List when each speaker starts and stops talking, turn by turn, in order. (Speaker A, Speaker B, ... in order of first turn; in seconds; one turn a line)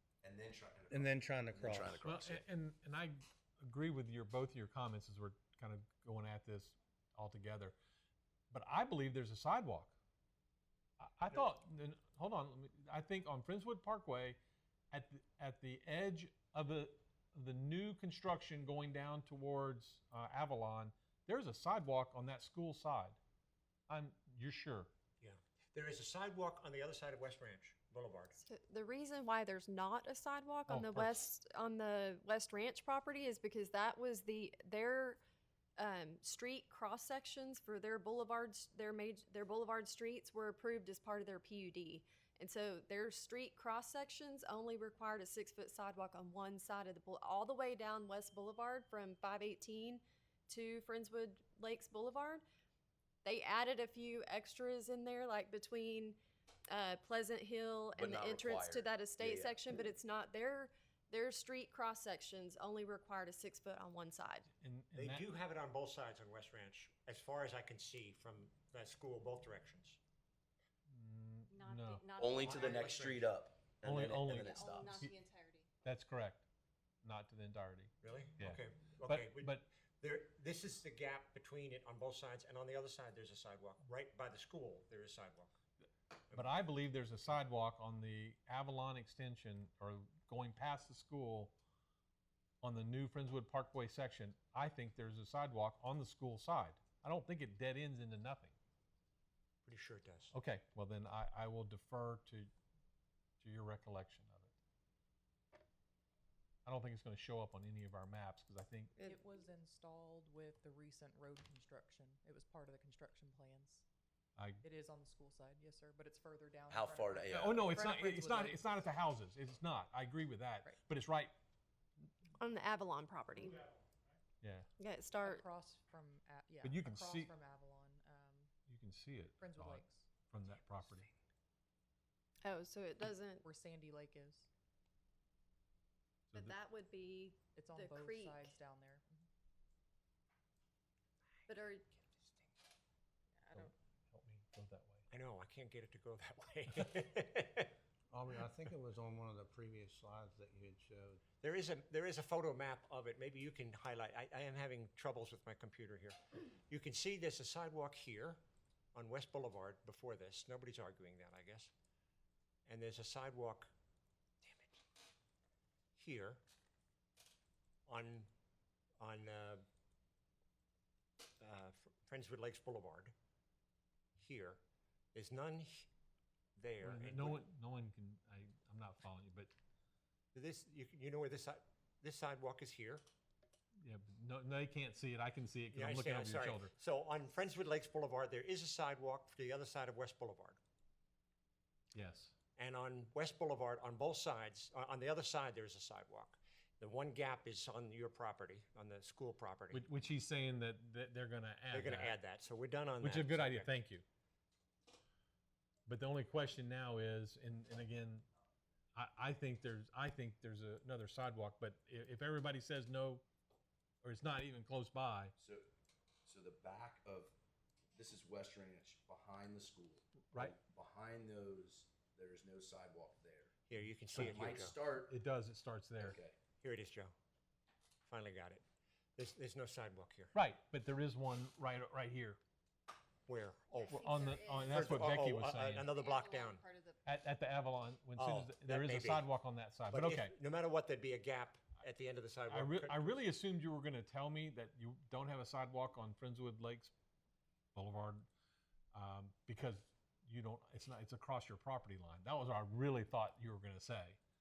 Speaker A: 0.2-2.4
Speaker B: 0.9-2.0
Speaker C: 2.0-7.8
Speaker C: 8.5-9.9
Speaker C: 11.0-14.4
Speaker C: 14.9-23.2
Speaker C: 23.9-24.9
Speaker D: 25.2-28.4
Speaker E: 28.3-35.2
Speaker C: 30.7-31.2
Speaker E: 35.8-52.4
Speaker E: 53.2-64.5
Speaker A: 58.0-59.6
Speaker C: 64.5-65.2
Speaker D: 65.0-70.0
Speaker C: 70.9-72.1
Speaker F: 71.5-72.8
Speaker A: 72.2-74.9
Speaker D: 72.4-73.3
Speaker C: 73.8-75.2
Speaker F: 74.4-75.7
Speaker C: 75.8-76.4
Speaker C: 77.0-79.7
Speaker D: 78.0-85.5
Speaker C: 86.3-91.6
Speaker C: 92.6-98.5
Speaker D: 99.7-100.3
Speaker C: 100.3-102.5
Speaker C: 103.4-104.5
Speaker C: 106.7-109.0
Speaker G: 109.0-113.8
Speaker C: 114.4-114.6
Speaker G: 114.6-118.6
Speaker A: 116.7-117.7
Speaker C: 117.3-121.3
Speaker E: 122.4-123.8
Speaker C: 124.4-124.7
Speaker E: 124.8-125.5
Speaker G: 125.2-128.5
Speaker C: 126.6-127.3
Speaker C: 128.7-131.1
Speaker G: 129.4-130.1
Speaker E: 132.4-133.4
Speaker G: 133.4-134.5
Speaker E: 136.3-138.5
Speaker G: 137.6-139.3
Speaker E: 141.5-141.9
Speaker C: 143.5-145.1
Speaker D: 145.1-147.7
Speaker B: 148.1-151.2
Speaker D: 151.4-156.2
Speaker D: 156.7-158.4
Speaker D: 158.9-161.7
Speaker D: 162.7-163.7
Speaker D: 164.4-164.8
Speaker D: 166.0-166.4
Speaker D: 167.9-168.3
Speaker D: 169.0-169.7
Speaker D: 171.4-173.1
Speaker D: 174.2-174.6
Speaker D: 175.1-175.9
Speaker D: 176.6-177.4
Speaker C: 176.8-179.5
Speaker D: 180.3-183.0
Speaker C: 183.8-186.7
Speaker D: 185.7-190.6
Speaker C: 191.9-192.3
Speaker D: 192.6-199.8
Speaker C: 199.7-202.2
Speaker D: 201.7-203.8
Speaker C: 203.0-204.0
Speaker C: 205.9-208.3
Speaker C: 208.9-213.2
Speaker C: 214.0-215.3
Speaker A: 215.4-215.7
Speaker A: 216.3-217.3
Speaker A: 218.0-223.5
Speaker C: 220.3-220.6
Speaker D: 223.7-224.8
Speaker A: 224.1-225.2
Speaker C: 225.1-226.2
Speaker A: 226.0-226.4
Speaker D: 226.6-227.1
Speaker D: 228.1-228.6
Speaker D: 229.2-230.3
Speaker C: 230.3-232.4
Speaker D: 233.3-236.6
Speaker F: 233.8-235.0
Speaker C: 233.9-235.9
Speaker F: 235.9-237.0
Speaker C: 237.1-240.3
Speaker D: 238.2-239.3
Speaker D: 239.9-243.1
Speaker C: 242.5-246.9
Speaker C: 247.7-248.3
Speaker C: 248.9-254.2